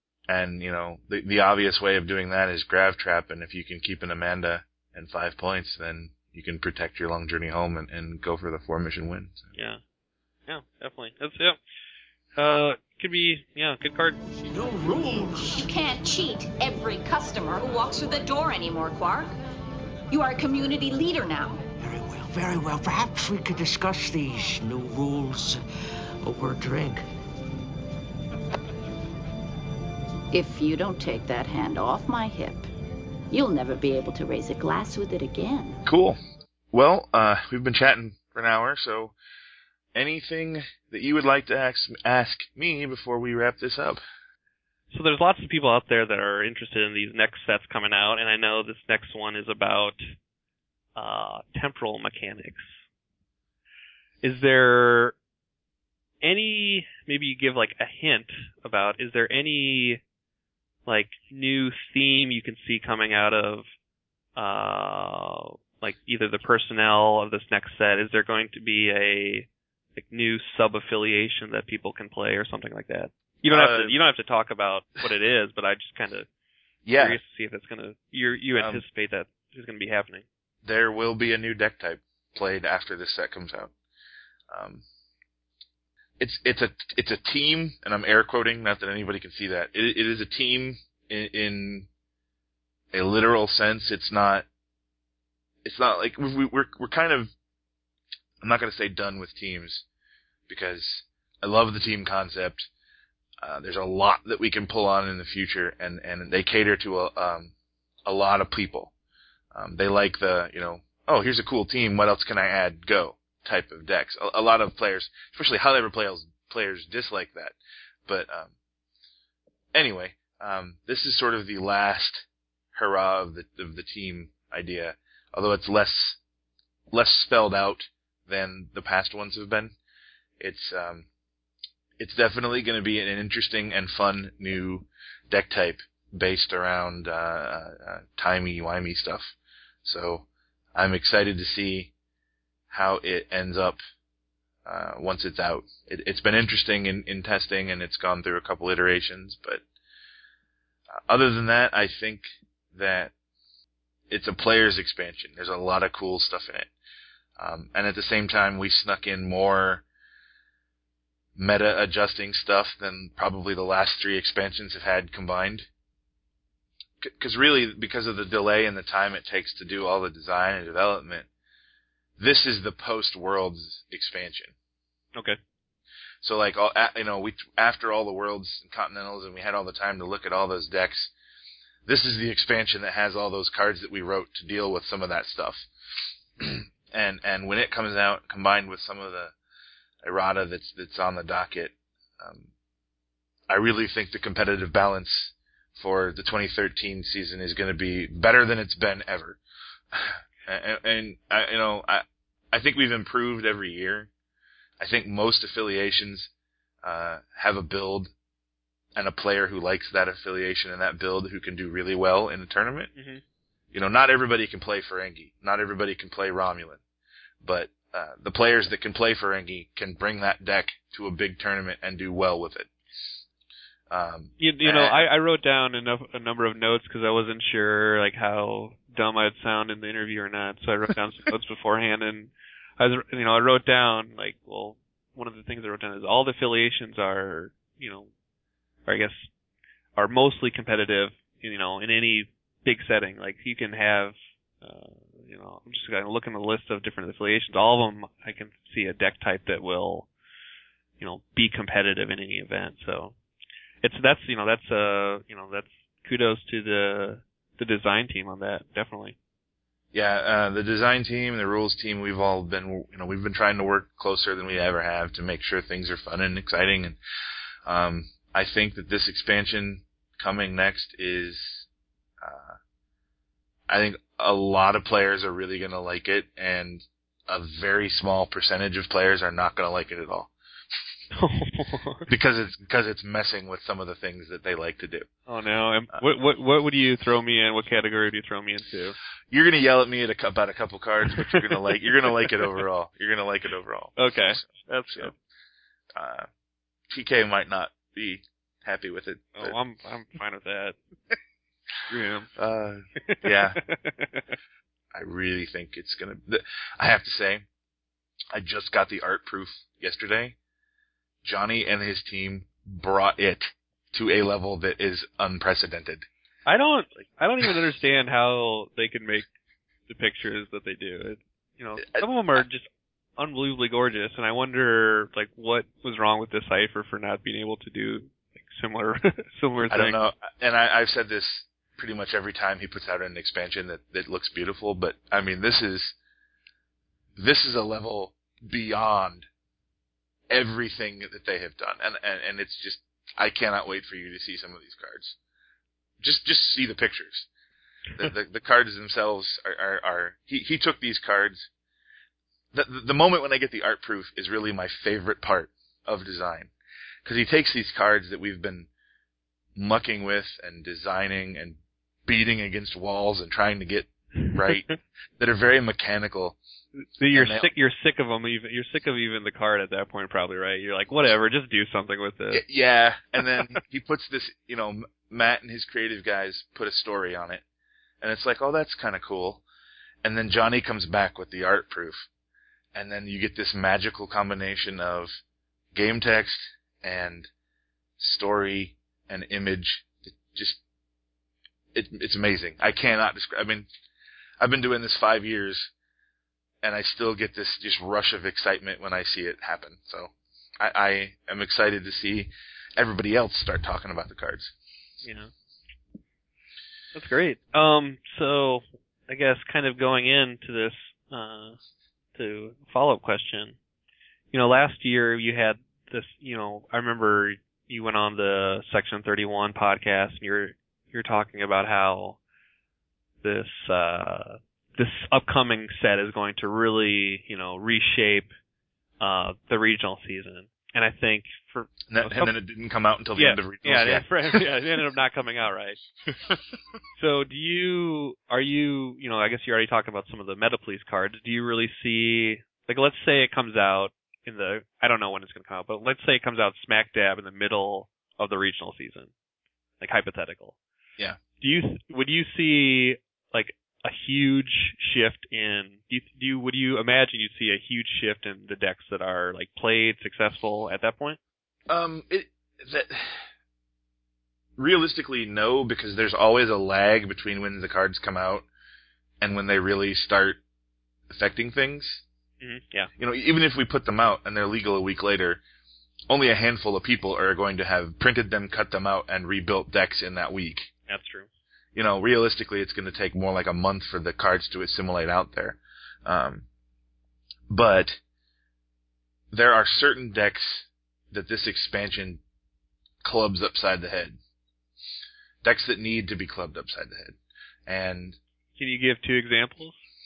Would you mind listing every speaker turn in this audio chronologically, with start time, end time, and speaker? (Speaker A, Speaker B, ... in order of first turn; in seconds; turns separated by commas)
Speaker A: 0.3-9.5, Speaker B: 9.6-9.8, Speaker B: 10.5-11.6, Speaker B: 12.4-14.2, Speaker C: 14.5-15.6, Speaker D: 15.5-19.3, Speaker D: 20.1-21.6, Speaker C: 21.8-25.6, Speaker C: 26.2-27.0, Speaker D: 30.3-32.7, Speaker D: 33.3-35.8, Speaker A: 35.9-36.2, Speaker A: 36.7-39.1, Speaker A: 39.9-44.0, Speaker B: 44.9-50.0, Speaker B: 51.0-52.8, Speaker B: 54.2-55.1, Speaker B: 56.2-60.0, Speaker B: 60.9-63.7, Speaker B: 64.4-76.3, Speaker A: 73.5-74.0, Speaker A: 76.8-77.2, Speaker B: 76.9-80.2, Speaker A: 78.6-78.8, Speaker A: 80.6-83.7, Speaker A: 84.5-84.8, Speaker A: 86.2-91.9, Speaker A: 92.9-94.5, Speaker A: 95.6-97.3, Speaker A: 98.4-99.9, Speaker A: 100.5-102.7, Speaker A: 103.4-107.5, Speaker A: 108.0-108.9, Speaker A: 109.5-118.5, Speaker A: 119.7-126.2, Speaker A: 126.9-129.8, Speaker A: 130.4-131.1, Speaker A: 132.0-141.9, Speaker A: 142.7-143.8, Speaker A: 144.7-149.6, Speaker A: 151.1-153.1, Speaker A: 154.1-156.7, Speaker A: 157.4-159.8, Speaker A: 161.4-165.7, Speaker A: 167.0-171.3, Speaker A: 172.2-174.6, Speaker A: 176.2-181.1, Speaker A: 181.9-185.7, Speaker A: 186.4-189.3, Speaker A: 190.0-192.5, Speaker A: 193.5-199.4, Speaker A: 199.9-204.1, Speaker A: 204.8-206.3, Speaker A: 206.8-208.1, Speaker A: 208.9-212.9, Speaker B: 212.9-213.2, Speaker A: 213.7-216.8, Speaker A: 217.4-223.1, Speaker A: 223.9-225.1, Speaker B: 224.4-238.1, Speaker B: 238.9-239.3, Speaker B: 240.0-250.1, Speaker B: 251.0-253.2, Speaker B: 253.8-259.1, Speaker A: 259.9-267.0, Speaker A: 267.7-271.7, Speaker A: 272.2-272.6, Speaker A: 273.7-280.3, Speaker B: 281.1-282.1, Speaker A: 282.1-285.1, Speaker B: 285.3-289.0, Speaker A: 289.3-295.1, Speaker B: 291.1-292.6, Speaker B: 294.0-295.1, Speaker A: 295.9-296.3, Speaker A: 296.9-299.6, Speaker B: 299.4-300.8, Speaker B: 301.9-302.3, Speaker A: 302.4-303.6, Speaker B: 303.0-304.4, Speaker A: 304.9-307.5, Speaker A: 308.3-310.4, Speaker A: 311.2-316.1, Speaker B: 316.5-319.3, Speaker B: 319.9-330.0, Speaker A: 321.8-322.4, Speaker A: 329.7-336.0, Speaker A: 337.2-339.3, Speaker A: 340.3-345.2, Speaker A: 346.0-347.3, Speaker A: 347.9-351.5, Speaker A: 352.5-356.5, Speaker A: 357.1-358.7, Speaker A: 359.6-366.4, Speaker B: 364.2-364.8, Speaker B: 366.8-372.5, Speaker A: 367.1-367.5, Speaker A: 372.3-377.4, Speaker B: 373.2-373.6, Speaker A: 378.0-379.4, Speaker A: 380.0-382.1, Speaker A: 382.7-385.2, Speaker A: 385.7-387.3, Speaker A: 388.0-390.6, Speaker A: 391.7-393.7, Speaker A: 394.4-395.7, Speaker A: 396.6-404.5, Speaker B: 405.0-405.3, Speaker B: 406.9-411.6, Speaker B: 412.1-413.6, Speaker B: 414.3-422.2, Speaker B: 423.2-428.3, Speaker B: 429.0-432.3, Speaker A: 431.9-434.4, Speaker B: 433.2-436.4, Speaker B: 436.9-449.1, Speaker B: 449.8-450.6, Speaker B: 451.4-461.2, Speaker A: 461.7-463.3, Speaker A: 464.6-468.5, Speaker A: 469.2-470.4, Speaker A: 471.1-472.0, Speaker B: 472.4-472.9, Speaker A: 473.0-475.4, Speaker A: 476.1-480.7, Speaker B: 480.9-481.3, Speaker A: 481.8-486.4, Speaker A: 487.5-488.0, Speaker A: 489.3-492.2, Speaker A: 493.0-494.2, Speaker A: 495.4-498.2, Speaker B: 498.6-499.8